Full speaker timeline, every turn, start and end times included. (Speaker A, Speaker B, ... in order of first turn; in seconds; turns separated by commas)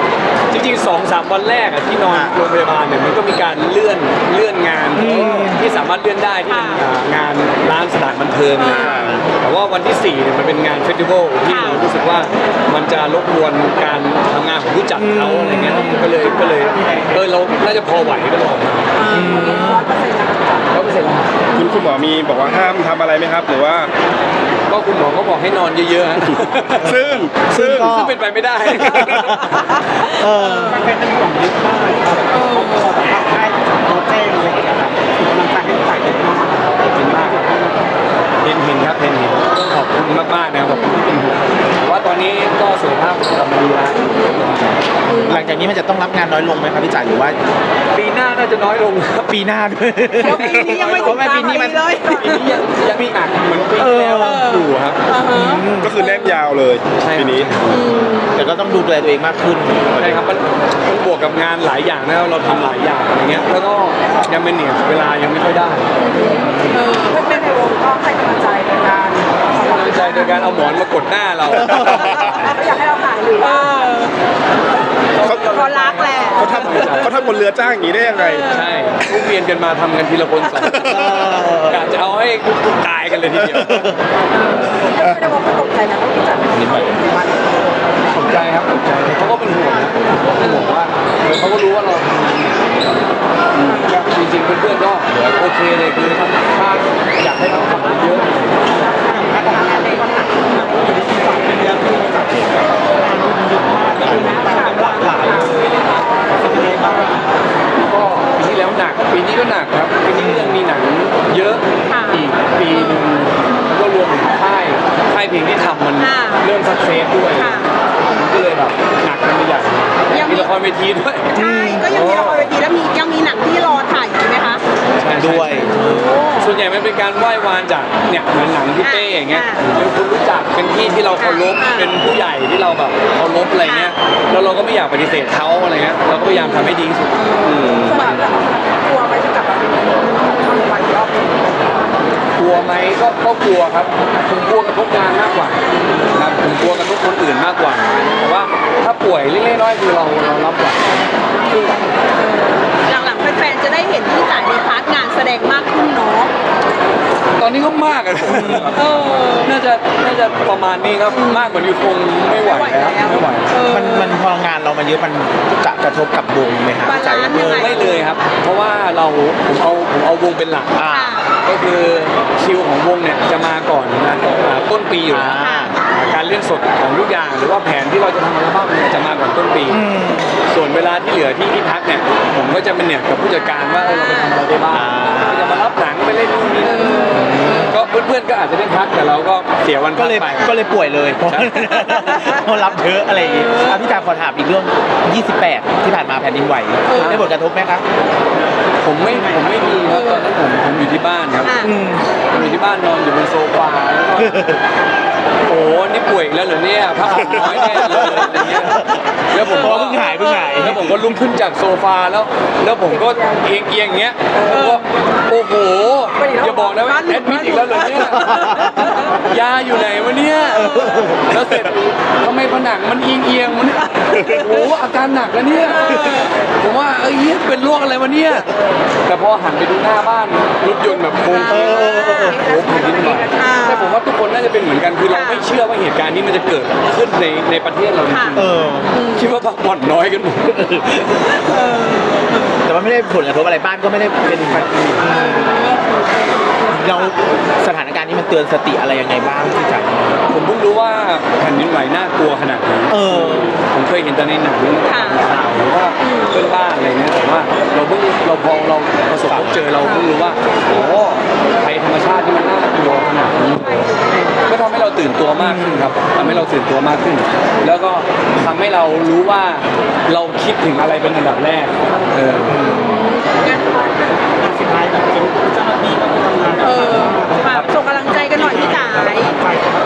Speaker A: 0.5-19.1, Speaker B: 2.0-2.3, Speaker B: 5.0-5.6, Speaker C: 6.5-6.8, Speaker C: 8.6-9.0, Speaker C: 11.5-11.8, Speaker B: 15.0-16.0, Speaker C: 19.0-20.6, Speaker B: 19.1-19.9, Speaker A: 20.7-21.4, Speaker D: 21.5-23.9, Speaker A: 24.7-26.9, Speaker D: 26.8-27.9, Speaker B: 26.8-36.5, Speaker A: 27.6-29.7, Speaker C: 32.3-33.0, Speaker A: 36.8-37.5, Speaker A: 38.4-44.8, Speaker B: 45.1-47.4, Speaker A: 47.9-49.3, Speaker B: 49.3-52.3, Speaker C: 50.2-52.3, Speaker A: 50.2-51.5, Speaker A: 52.0-55.0, Speaker B: 53.8-54.6, Speaker C: 54.2-56.4, Speaker B: 55.3-56.0, Speaker D: 55.8-57.6, Speaker A: 57.0-57.6, Speaker C: 57.7-58.3, Speaker B: 58.3-60.2, Speaker A: 60.0-65.9, Speaker C: 66.0-70.4, Speaker A: 69.5-72.6, Speaker C: 72.5-74.1, Speaker A: 75.1-77.2, Speaker D: 75.2-75.7, Speaker C: 75.5-76.5, Speaker D: 76.3-78.6, Speaker A: 78.4-81.2, Speaker B: 80.8-81.9, Speaker A: 81.7-84.0, Speaker B: 83.6-83.9, Speaker C: 84.7-87.5, Speaker B: 86.6-87.0, Speaker A: 88.1-92.7, Speaker A: 93.5-98.5, Speaker C: 99.0-100.8, Speaker B: 100.9-105.7, Speaker C: 104.1-107.0, Speaker B: 106.4-107.1, Speaker A: 107.8-122.5, Speaker B: 110.2-110.6, Speaker C: 111.9-112.2, Speaker C: 116.0-116.5, Speaker C: 117.4-117.7, Speaker C: 120.1-120.5, Speaker C: 121.3-124.6, Speaker B: 121.4-121.9, Speaker A: 125.0-125.7, Speaker B: 125.2-126.2, Speaker C: 125.6-126.5, Speaker A: 126.4-138.2, Speaker C: 128.8-129.6, Speaker C: 131.2-131.9, Speaker C: 133.6-133.9, Speaker C: 136.3-136.7, Speaker C: 137.8-141.5, Speaker A: 142.4-151.9, Speaker C: 152.2-156.3, Speaker A: 157.4-163.5, Speaker B: 158.2-158.8, Speaker C: 158.8-159.5, Speaker C: 161.1-161.5, Speaker C: 162.5-164.1, Speaker B: 163.7-167.8, Speaker C: 166.8-168.0, Speaker A: 167.4-170.8, Speaker B: 170.8-171.2, Speaker C: 170.9-171.2, Speaker A: 171.3-179.8, Speaker B: 175.1-175.8, Speaker C: 175.4-175.7, Speaker B: 179.7-180.4, Speaker A: 180.5-190.6, Speaker C: 183.9-184.3, Speaker B: 184.7-185.7, Speaker C: 186.7-187.4, Speaker B: 187.1-187.7, Speaker B: 190.0-197.8, Speaker A: 191.2-191.8, Speaker A: 196.9-197.3, Speaker A: 198.8-201.7, Speaker C: 201.4-201.7, Speaker B: 201.7-202.1, Speaker A: 202.3-204.4, Speaker B: 204.2-204.6, Speaker A: 205.4-208.8, Speaker B: 207.1-210.9, Speaker A: 209.3-218.6, Speaker C: 214.4-214.8, Speaker C: 216.2-218.3, Speaker B: 218.1-218.9, Speaker A: 219.2-228.5, Speaker B: 220.8-221.0, Speaker A: 229.1-241.1, Speaker C: 231.2-234.0, Speaker B: 231.5-232.4, Speaker C: 235.1-235.5, Speaker C: 238.1-238.4, Speaker B: 238.3-238.9, Speaker C: 241.5-242.5, Speaker B: 242.7-245.6, Speaker A: 244.3-245.1, Speaker C: 245.5-246.7, Speaker B: 246.7-250.2, Speaker A: 250.3-272.7, Speaker B: 252.9-253.6, Speaker C: 254.8-255.2, Speaker B: 259.3-259.6, Speaker B: 265.4-265.9, Speaker B: 272.6-273.1, Speaker C: 272.7-274.1, Speaker B: 274.4-277.1, Speaker C: 276.6-279.4, Speaker A: 277.4-277.7, Speaker B: 278.7-279.7